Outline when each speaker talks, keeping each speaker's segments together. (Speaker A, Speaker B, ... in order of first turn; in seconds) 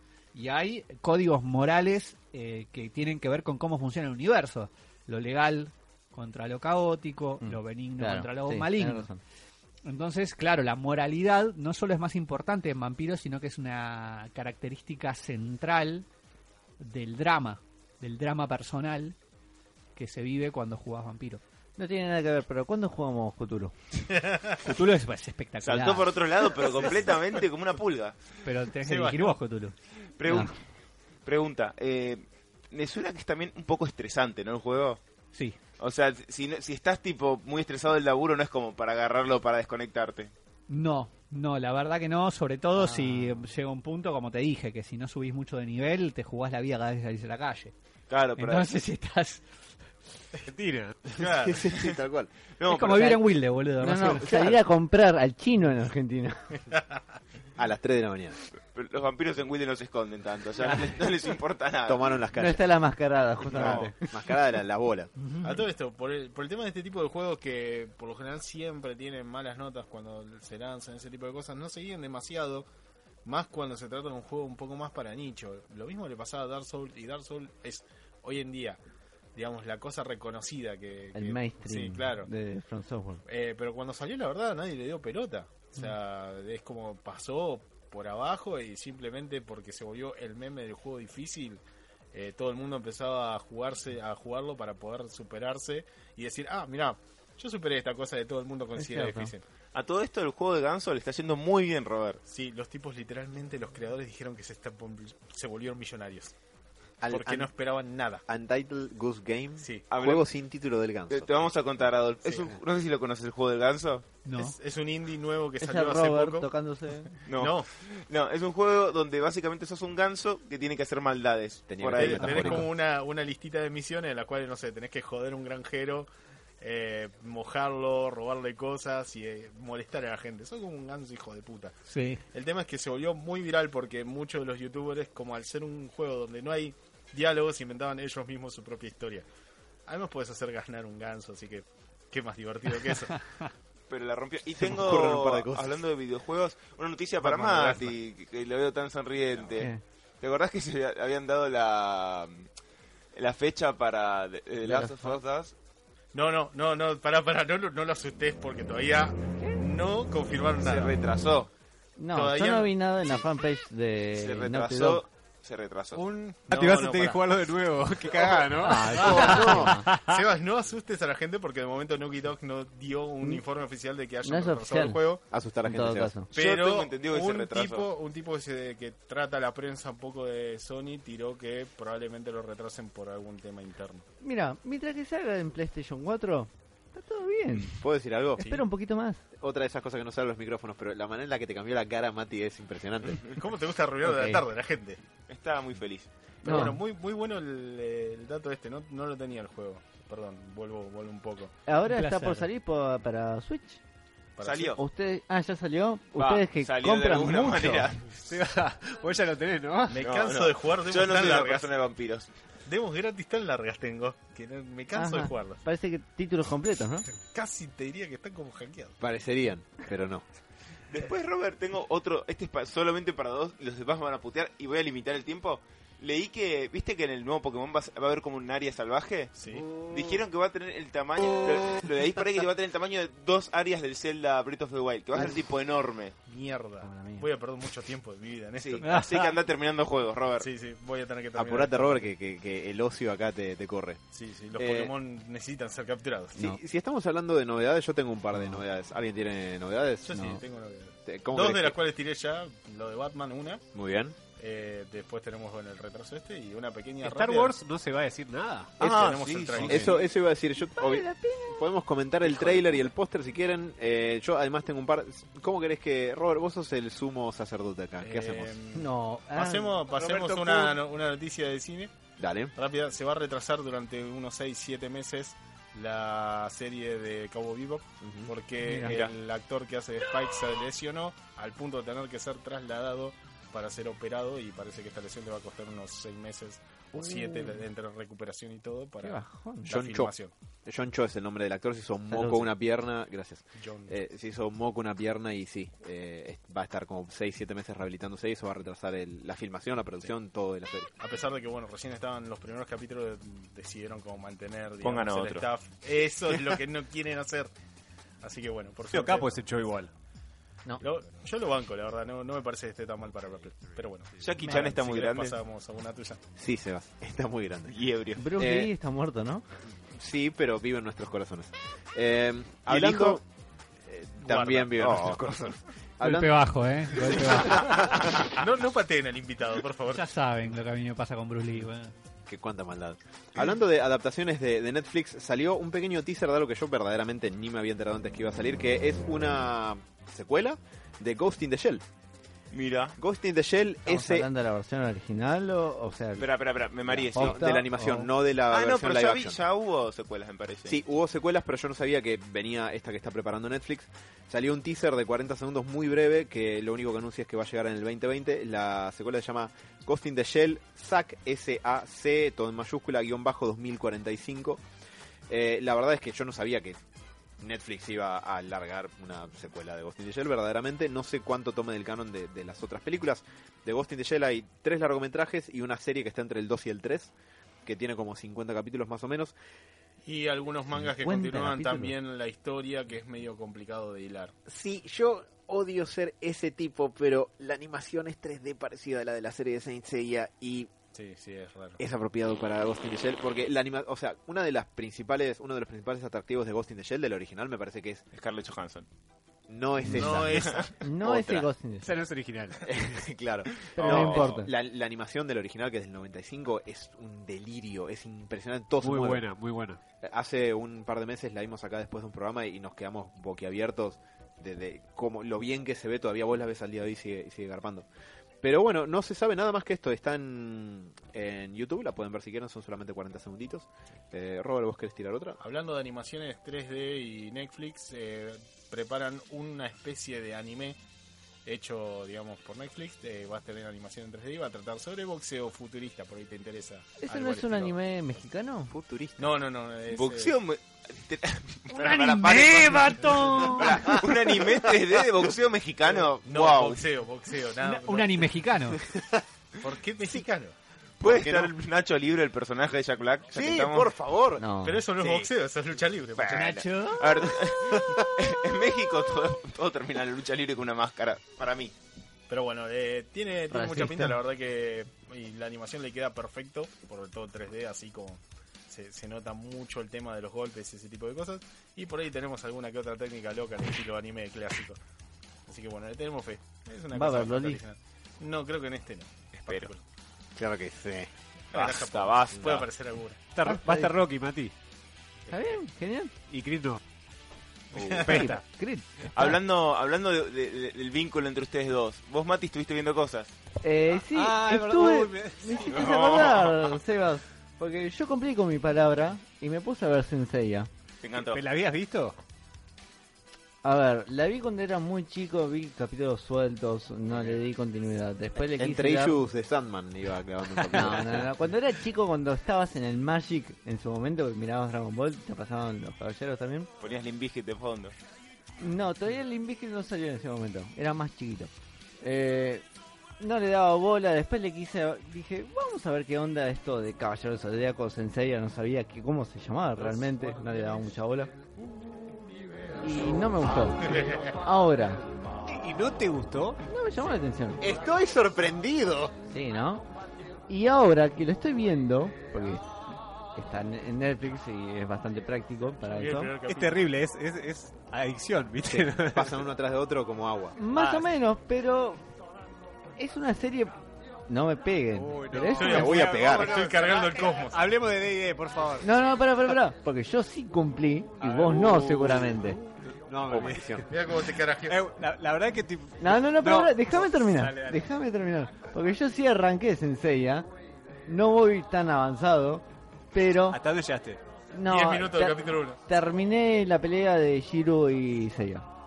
Speaker A: 0.3-9.1, 9.9-16.1, 16.8-19.2, 19.9-21.4, 24.6-26.2, 28.4-29.8, 40.7-47.7, 48.4-49.4, 52.7-54.5, 65.2-65.6, 114.2-114.6, 131.9-132.2, 169.9-170.2, 201.9-202.5, 238.8-239.3, 326.0-327.8, 329.9-331.9, 441.7-444.0, 447.6-448.8, 456.3-457.2
Speaker B: 7.4-9.2, 21.8-23.7, 42.8-43.4, 53.8-56.6, 62.4-64.0, 81.1-83.2, 98.8-99.3, 115.6-117.1, 154.6-155.2, 162.0-165.1, 168.6-169.9, 174.2-175.0, 175.7-176.3, 184.2-187.8, 188.4-189.2, 194.0-194.4, 196.4-196.8, 201.7-203.8, 204.8-207.9, 214.9-217.1, 236.8-237.3, 250.1-250.4, 260.6-261.6, 268.7-269.8, 278.6-279.0, 286.9-287.6, 289.0-289.7, 292.1-292.5, 318.2-319.4, 343.9-346.3, 346.9-348.1, 380.9-381.9, 399.8-400.2, 400.8-401.9, 403.8-404.5, 437.0-438.7, 454.4-454.8, 463.5-464.2, 476.9-477.6, 483.4-483.9, 485.3-486.1, 488.1-489.4, 493.6-500.7, 503.6-509.2, 510.7-516.7, 518.6-522.6, 523.2-531.3, 532.8-535.0, 536.7-537.6, 539.3-539.9, 540.5-542.7, 543.4-546.3, 550.6-552.0, 553.0-553.8, 554.3-555.9, 558.8-562.6, 566.0-570.5, 571.1-573.6, 574.5-578.7
Speaker C: 24.2-24.6, 26.7-27.0, 28.8-29.4, 51.1-51.7, 56.7-57.0, 65.4-72.7, 73.2-78.8, 79.4-82.3, 83.3-91.6, 92.1-99.4, 102.3-106.3, 107.1-108.2, 109.6-109.9, 112.2-112.5, 114.4-116.5, 117.3-117.7, 122.0-126.1, 126.6-131.7, 132.3-139.2, 139.9-143.2, 147.2-148.0, 156.1-161.0, 162.1-162.7, 165.9-167.2, 169.2-175.2, 176.3-184.1, 188.4-188.7, 193.3-195.0, 196.4-201.5, 204.4-204.8, 209.9-211.7, 212.7-215.6, 217.3-219.0, 229.4-229.7, 236.3-239.0, 240.4-242.1, 244.1-246.4, 250.0-253.6, 254.4-257.6, 258.8-260.1, 268.0-271.9, 272.6-290.3, 293.6-294.0, 301.0-307.5, 308.2-309.3, 310.8-316.2, 324.2-325.0, 328.4-330.2, 380.1-384.3, 390.9-391.8, 399.9-400.7, 425.4-430.8, 431.5-437.8, 439.2-440.4, 445.9-448.4, 449.6-450.5, 454.6-456.5, 462.3-474.8, 475.5-479.8, 481.5-483.2, 487.7-488.4, 533.8-534.4, 545.8-546.9, 555.6-557.6, 563.9-564.8, 574.7-575.8
Speaker D: 25.6-28.2, 30.2-30.6, 31.2-35.0, 35.8-40.3, 48.1-48.8, 51.7-52.0, 52.6-53.3, 54.3-54.5, 58.6-62.1, 63.5-63.9, 99.7-102.2, 109.9-110.2, 111.1-114.1, 117.3-122.7, 143.9-152.5, 153.2-155.5, 160.6-161.5, 164.2-166.0, 176.3-177.9, 195.3-196.1, 204.4-204.8, 206.2-208.2, 210.0-212.3, 220.9-229.3, 229.9-236.1, 238.6-240.5, 258.8-259.9, 278.8-279.1, 304.8-305.4, 314.2-315.4, 317.7-318.2, 322.7-323.2, 324.8-325.2, 327.7-328.3, 342.5-343.0, 346.2-347.5, 348.5-350.8, 398.1-398.9, 400.4-400.7, 403.8-404.3, 439.9-446.8, 451.0-453.9, 455.0-455.3, 456.2-461.7, 479.4-479.7, 481.5-482.7, 487.8-488.3, 489.1-493.3, 495.6-496.8, 501.0-501.4, 516.8-517.9
Speaker E: 50.4-51.2, 166.4-169.6, 208.3-210.0, 257.0-259.7, 270.3-270.7, 308.9-309.9, 401.8-403.0, 408.8-409.8, 483.3-484.5, 486.3-486.8, 494.0-495.6, 501.2-502.2, 529.9-530.3, 535.5-536.6, 546.4-549.4, 550.7-551.1, 554.9-558.9, 561.2-567.9, 573.5-574.2
Speaker F: 51.2-52.3, 57.6-58.4, 61.9-62.6, 63.5-65.1, 107.0-107.5, 108.3-111.3, 121.7-122.7, 144.5-145.8, 168.9-169.8, 175.3-176.1, 187.8-188.4, 189.3-193.3, 219.0-220.2, 241.3-244.0, 244.6-244.9, 246.4-250.2, 251.1-251.8, 253.7-254.2, 259.6-268.6, 272.2-272.5, 278.0-278.3, 289.7-290.1, 290.7-300.9, 316.4-317.8, 318.4-318.7, 319.9-323.2, 323.9-328.0, 332.3-341.8, 343.0-344.3, 347.1-349.4, 350.7-364.6, 365.3-366.8, 367.4-377.1, 377.6-379.3, 384.5-390.7, 391.8-398.0, 399.5-401.5, 402.6-409.3, 410.0-417.9, 418.4-425.4, 438.7-439.2, 444.1-444.7, 448.9-449.2, 451.0-451.5, 453.3-454.4, 480.4-481.1, 508.5-511.3, 537.6-539.1, 548.7-550.6, 555.6-556.7, 563.3-563.9